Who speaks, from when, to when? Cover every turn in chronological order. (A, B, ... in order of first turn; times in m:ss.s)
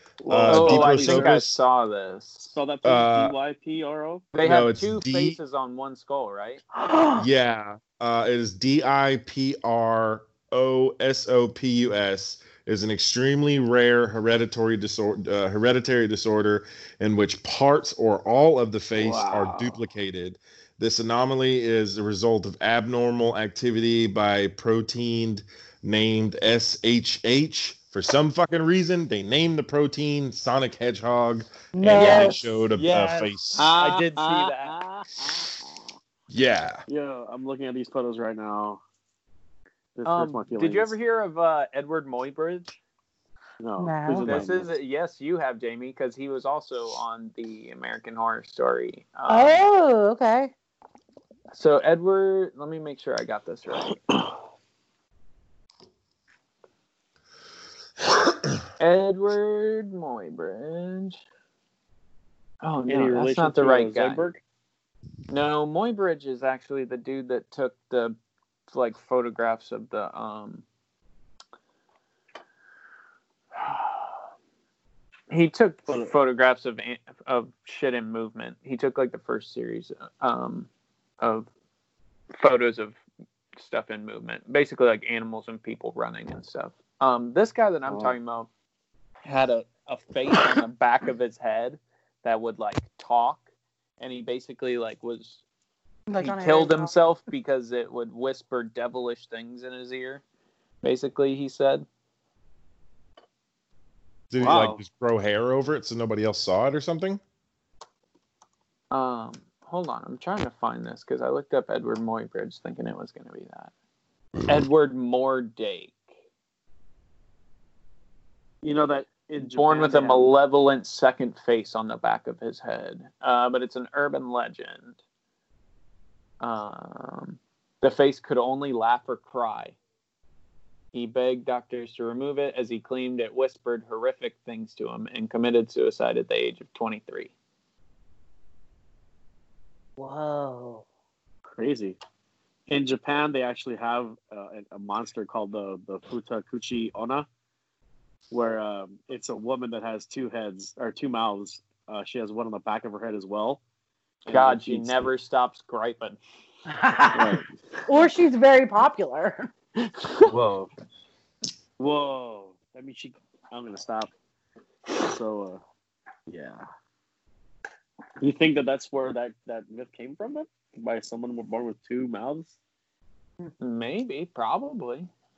0:00.2-0:01.4 A
0:00.3-0:01.6 B
0:00.5-0:02.5 C
0:02.4-0:04.3 A
0:02.8-0:03.3 B
0:04.3-0:06.6 C
0:04.4-0:05.4 B
0:06.7-0:07.3 D
0:07.2-0:33.7 B
0:18.9-0:19.8 A
0:31.7-0:32.4 D
0:31.9-0:34.8 C
0:33.5-0:35.8 A
0:36.3-0:36.8 B
0:36.9-0:38.8 A
0:39.9-0:40.9 A
0:40.0-0:42.8 C
0:43.6-0:44.7 A
0:43.8-0:44.4 D
0:44.2-0:49.6 C
0:49.3-0:50.5 D
0:51.5-0:54.0 C
0:58.8-1:01.2 C
1:02.6-1:04.2 C
1:02.9-1:04.4 A
1:05.3-1:08.2 C
1:08.7-1:10.6 C
1:15.3-1:20.7 C
1:15.9-1:16.1 A
1:21.2-1:21.5 C
1:22.4-1:23.0 C
1:23.6-1:28.5 C
1:27.9-1:28.2 A
1:29.2-1:33.4 C
1:34.0-1:35.4 C
1:36.1-1:36.9 D
1:36.2-1:40.2 C
1:40.8-1:41.8 C
1:44.3-1:47.2 B
1:44.4-1:44.8 A
1:48.9-1:53.7 C
1:54.4-1:56.0 C
1:58.6-2:00.3 A
1:59.4-2:05.0 C
2:06.4-2:09.8 C
2:10.9-2:17.3 C
2:20.0-2:20.8 D
2:21.5-2:22.0 A
2:22.7-2:27.3 A
2:28.3-2:33.6 A
2:34.2-2:35.1 A
2:34.3-2:36.2 C
2:36.7-2:39.5 D
2:37.1-2:37.5 A
2:40.3-2:40.7 A
2:41.8-2:44.1 A
2:44.9-2:45.6 A
2:46.3-2:46.6 A
2:48.2-2:52.5 A
2:53.6-2:55.1 C